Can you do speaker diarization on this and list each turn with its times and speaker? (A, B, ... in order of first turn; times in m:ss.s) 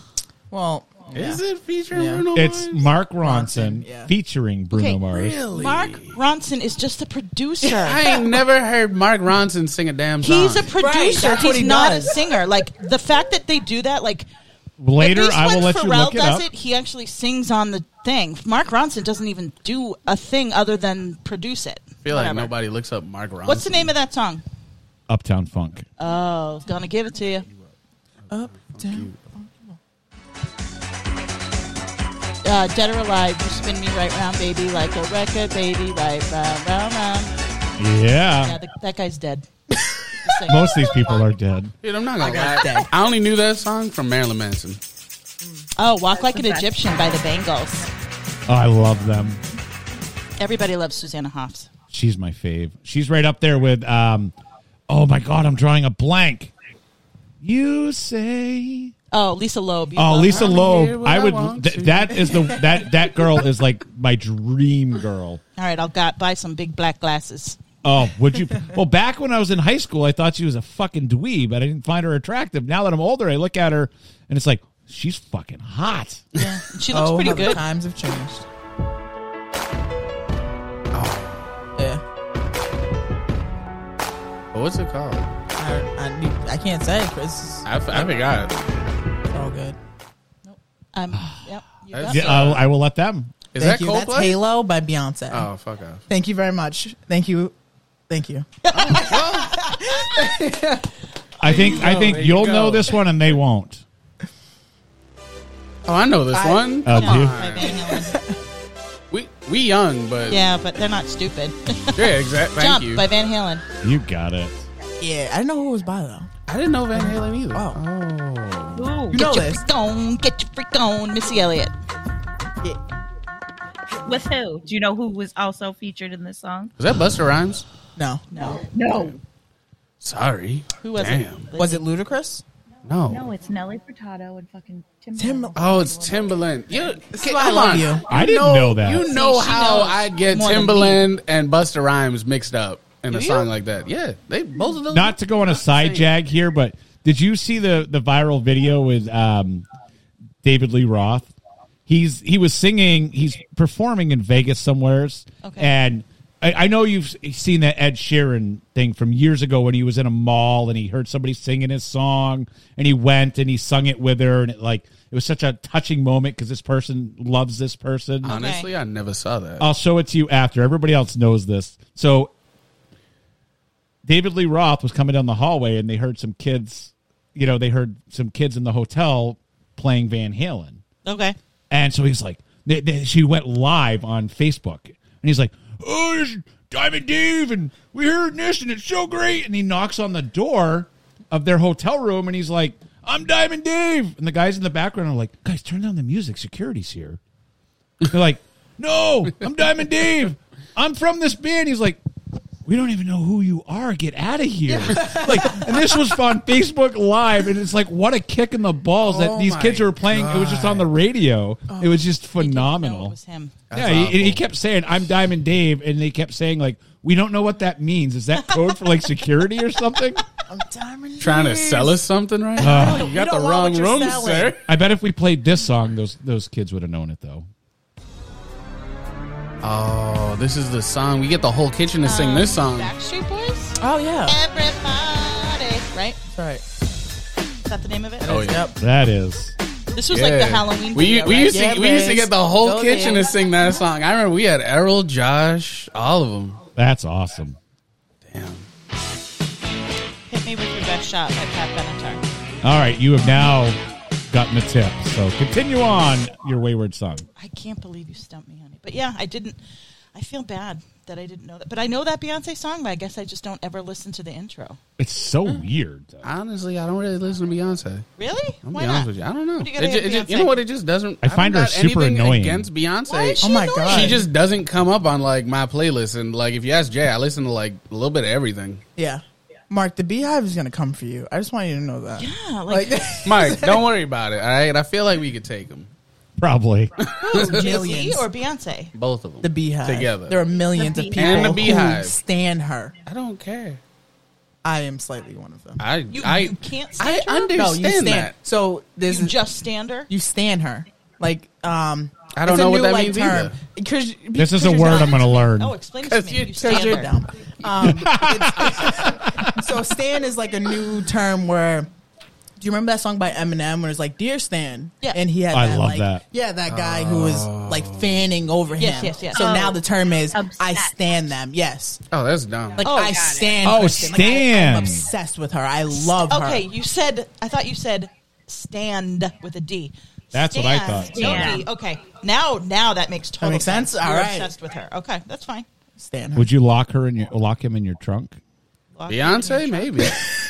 0:00.5-0:02.2 A
0:01.1-0:02.9 B
0:02.3-0:05.4 C
0:03.2-0:04.1 A
0:04.7-0:08.1 D
0:05.1-0:06.2 B
0:07.8-0:10.7 B
0:08.0-0:08.2 A
0:10.2-0:14.3 D
0:10.8-0:12.2 A
0:14.8-0:16.4 C
0:15.0-0:22.5 D
0:22.0-0:23.9 B
0:23.4-0:24.4 D
0:25.1-0:25.9 C
0:26.0-0:27.4 D
0:28.3-0:29.7 A
0:28.5-0:29.2 B
0:32.4-0:37.3 D
0:37.8-0:38.6 C
0:38.4-0:39.5 D
0:40.2-0:40.8 D
0:40.5-0:41.7 C
0:41.8-0:44.8 B
0:42.2-0:42.9 A
0:45.4-0:45.6 A
0:45.8-0:47.9 D
0:46.2-0:46.9 E
0:48.5-0:49.4 C
0:50.4-0:51.7 D
0:51.9-0:54.3 C
0:54.9-0:56.5 C
0:57.4-0:58.9 C
0:59.1-1:00.6 D
1:00.0-1:05.4 C
1:00.3-1:02.6 B
1:05.6-1:07.6 D
1:07.8-1:16.2 C
1:16.3-1:17.6 D
1:16.9-1:18.4 A
1:20.9-1:21.4 B
1:21.8-1:22.0 A
1:24.5-1:25.3 B
1:25.6-1:28.3 A
1:27.6-1:28.5 B
1:29.3-1:29.8 A
1:30.4-1:32.5 D
1:31.1-1:31.4 C
1:31.9-1:32.6 B
1:32.1-1:33.4 C
1:33.5-1:34.4 B
1:33.6-1:35.5 A
1:35.3-1:36.0 B
1:36.1-1:37.5 A
1:38.1-1:40.9 A
1:38.6-1:40.0 D
1:38.7-1:39.6 B
1:41.4-1:43.8 C
1:41.4-1:42.9 B
1:45.8-1:47.7 B
1:46.3-1:46.8 A
1:46.8-1:47.4 C
1:46.9-1:48.1 D
1:47.6-1:48.4 A
1:49.1-1:50.4 B
1:50.3-1:53.6 D
1:51.9-1:53.0 B
1:53.8-1:54.6 C
1:55.0-1:56.3 A
1:56.5-1:58.9 B
1:56.9-1:57.8 A
1:58.8-1:59.2 E
1:59.1-1:59.6 A
1:59.1-2:01.7 D
2:04.0-2:06.7 E
2:06.8-2:07.6 B
2:08.0-2:09.1 A
2:08.3-2:08.6 D
2:08.5-2:09.2 E
2:10.0-2:11.5 B
2:10.8-2:11.8 D
2:11.5-2:12.4 A
2:12.8-2:13.3 B
2:13.1-2:16.4 E
2:15.2-2:15.6 A
2:15.6-2:26.1 B
2:17.1-2:18.1 A
2:18.1-2:19.1 C
2:19.1-2:21.0 D
2:23.1-2:23.5 D
2:24.9-2:29.6 C
2:30.4-2:31.3 C
2:31.9-2:48.4 C
2:35.4-2:35.7 D
2:48.2-2:48.7 D
2:48.2-2:49.7 B
2:49.6-2:52.3 C
2:54.0-3:00.8 C
3:01.0-3:01.4 D
3:01.7-3:17.2 C
3:18.0-3:22.0 C
3:22.6-3:33.1 C
3:24.8-3:25.7 A
3:29.0-3:30.9 B
3:31.7-3:32.0 A
3:32.4-3:33.6 D
3:33.7-3:34.4 B
3:33.7-3:40.2 C
3:40.5-3:42.0 A
3:41.2-3:44.6 B
3:42.6-3:44.6 A
3:42.6-3:43.1 C
3:44.7-3:47.5 C
3:49.6-3:52.9 B
3:52.0-3:56.2 D
3:53.8-3:54.4 A
3:56.3-3:56.6 A
3:57.6-3:58.4 D
3:58.2-3:58.7 A
3:58.2-3:58.6 B
3:58.8-3:59.5 C
3:59.9-4:01.9 D
4:00.1-4:06.6 B
4:01.4-4:03.3 A
4:06.8-4:07.6 C
4:08.3-4:08.7 B
4:10.3-4:12.2 D
4:12.6-4:13.8 C
4:14.3-4:17.2 C
4:17.4-4:19.6 D
4:20.1-4:24.8 D
4:25.0-4:26.3 C
4:26.2-4:28.1 B
4:28.2-4:30.6 D
4:28.6-4:38.8 B
4:31.2-4:32.7 C
4:33.1-4:34.2 D
4:33.4-4:34.3 A
4:39.0-4:43.8 A
4:42.2-4:43.3 D
4:43.2-4:45.9 B
4:46.4-4:46.9 C
4:47.1-4:47.6 B
4:47.2-4:48.9 D
4:47.3-4:48.3 A
4:48.9-4:50.4 B
4:49.4-4:52.9 A
4:50.8-4:51.7 E
4:51.1-4:52.2 B
4:53.1-4:53.8 B
4:54.6-4:55.8 A
4:55.8-4:58.3 B
4:56.1-4:57.5 D
4:57.5-4:59.4 A
4:59.1-5:00.1 D
5:00.1-5:05.3 A
5:02.3-5:03.6 B
5:04.4-5:05.7 C
5:04.6-5:07.1 D
5:06.0-5:07.0 B
5:06.6-5:11.9 A
5:07.8-5:09.6 C
5:12.6-5:22.0 A
5:15.5-5:16.2 C
5:16.7-5:18.2 B
5:18.8-5:19.5 D
5:19.3-5:20.9 E
5:22.1-5:22.8 B
5:22.8-5:26.6 A
5:22.8-5:23.4 D
5:22.9-5:24.3 E
5:23.6-5:25.0 C
5:25.9-5:35.6 D
5:30.3-5:31.6 C
5:31.1-5:31.6 E
5:33.4-5:34.5 A
5:36.0-5:36.5 A
5:36.4-5:38.4 C
5:38.9-5:40.1 D
5:39.1-5:40.3 B